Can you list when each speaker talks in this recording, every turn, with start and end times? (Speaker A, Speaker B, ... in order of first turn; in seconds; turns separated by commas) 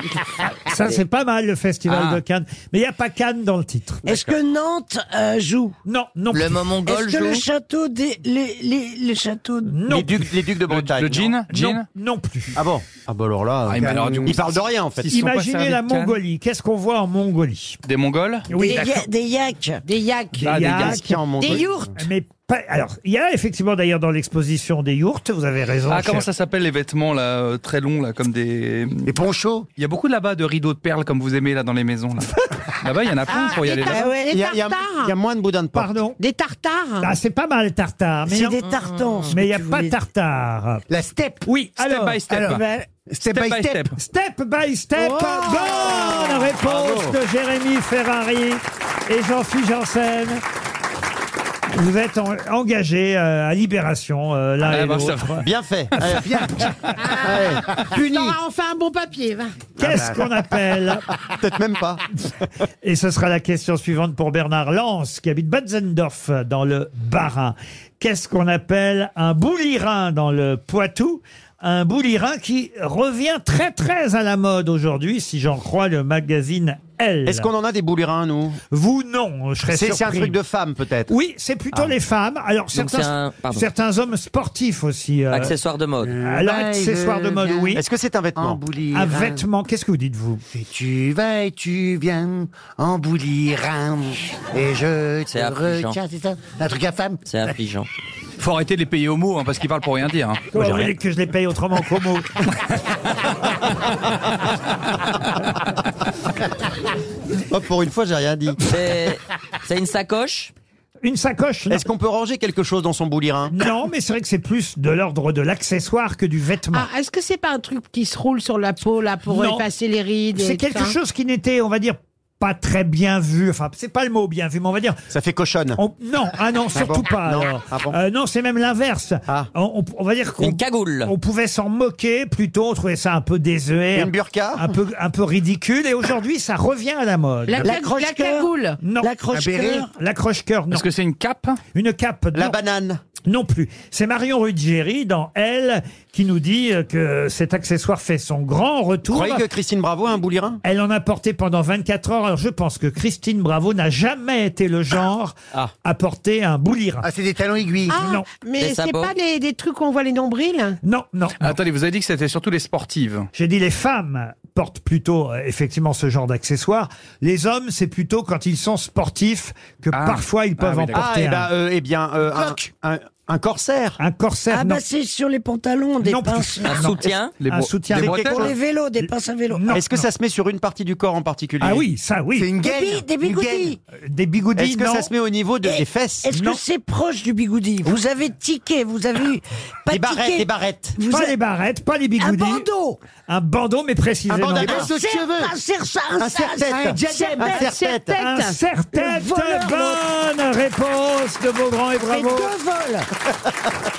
Speaker A: 0.7-4.1, Speaker B: 1.9-2.2, Speaker C: 4.0-5.7, Speaker A: 5.8-6.7, Speaker D: 6.3-7.4, Speaker C: 6.8-9.8, Speaker A: 9.6-10.2, Speaker E: 9.9-11.3, Speaker B: 10.7-11.8, Speaker A: 11.5-12.6, Speaker E: 12.6-15.1, Speaker B: 13.7-16.2, Speaker F: 13.7-14.4, Speaker A: 15.1-17.8, Speaker B: 17.9-18.4, Speaker A: 18.5-18.9, Speaker C: 18.6-19.8, Speaker G: 19.9-20.9, Speaker A: 20.4-26.2, Speaker B: 20.4-21.0, Speaker E: 20.6-21.9, Speaker G: 21.4-21.9, Speaker B: 25.9-29.1, Speaker F: 29.0-29.6, Speaker B: 29.8-34.1, Speaker G: 33.3-35.1, Speaker C: 33.9-34.3, Speaker E: 34.3-35.9, Speaker A: 35.7-36.2, Speaker G: 36.2-37.1, Speaker A: 37.0-38.6, Speaker C: 38.2-39.9, Speaker D: 38.6-39.3, Speaker A: 39.3-40.8, Speaker F: 40.9-41.4, Speaker A: 41.5-42.2, Speaker B: 41.8-42.6, Speaker F: 42.3-43.9, Speaker C: 42.3-42.9, Speaker B: 43.2-43.9, Speaker A: 44.0-50.4, Speaker G: 45.0-46.5, Speaker E: 46.6-47.1, Speaker A: 51.7-55.4, Speaker B: 54.6-55.3, Speaker E: 55.4-56.5, Speaker G: 57.0-59.6, Speaker E: 57.2-58.4, Speaker A: 59.8-61.0, Speaker F: 59.8-60.1, Speaker E: 59.8-60.1, Speaker E: 61.3-62.0, Speaker A: 62.8-77.5, Speaker E: 77.2-78.6, Speaker A: 78.7-80.3, Speaker E: 79.7-81.1, Speaker A: 81.1-85.5, Speaker D: 82.7-83.7, Speaker D: 85.3-86.2, Speaker F: 86.0-87.8, Speaker A: 86.2-87.8, Speaker E: 87.7-88.6, Speaker F: 88.3-89.4, Speaker A: 88.9-90.4, Speaker F: 90.5-97.5, Speaker D: 95.3-96.0, Speaker D: 97.3-97.9, Speaker B: 98.4-100.8, Speaker A: 100.5-102.3, Speaker E: 107.5-108.6, Speaker D: 108.7-110.5, Speaker A: 111.0-111.8, Speaker E: 111.7-113.5, Speaker A: 113.5-116.9, Speaker G: 116.7-121.0, Speaker A: 119.3-119.7, Speaker A: 120.3-125.0, Speaker E: 125.1-125.8, Speaker A: 125.8-137.7, Speaker E: 126.7-128.0, Speaker D: 130.4-131.1, Speaker E: 133.9-134.7, Speaker G: 137.5-138.8, Speaker C: 137.6-139.9, Speaker A: 138.8-139.1, Speaker F: 139.3-139.9, Speaker A: 139.8-140.8, Speaker B: 140.7-141.6, Speaker A: 141.7-142.6, Speaker E: 142.3-143.0, Speaker A: 143.2-149.4, Speaker E: 149.1-150.6, Speaker A: 150.6-157.1, Speaker F: 157.0-158.0, Speaker G: 157.9-160.8, Speaker A: 157.9-158.2, Speaker D: 158.6-159.1, Speaker A: 160.8-161.5, Speaker B: 161.4-163.3, Speaker A: 163.3-171.5, Speaker B: 169.9-171.1, Speaker E: 170.9-174.0, Speaker A: 174.0-174.8, Speaker C: 174.5-176.9, Speaker A: 176.0-178.5, Speaker D: 176.6-177.4, Speaker B: 177.4-178.4, Speaker E: 177.9-178.5, Speaker C: 178.3-179.8, Speaker A: 179.5-180.1, Speaker E: 179.7-181.8, Speaker A: 181.6-182.5, Speaker F: 182.3-183.7, Speaker C: 182.6-183.8, Speaker A: 184.0-185.1, Speaker E: 184.6-186.3, Speaker C: 185.6-191.3, Speaker A: 186.3-186.6, Speaker E: 189.9-191.0, Speaker A: 191.1-192.7, Speaker C: 192.2-193.0, Speaker A: 193.3-194.9, Speaker E: 194.3-195.5, Speaker F: 194.4-195.5, Speaker C: 194.7-197.6, Speaker E: 196.2-198.2, Speaker F: 196.7-197.6, Speaker G: 197.1-198.6, Speaker A: 198.2-202.5, Speaker C: 198.9-200.0, Speaker C: 202.0-203.1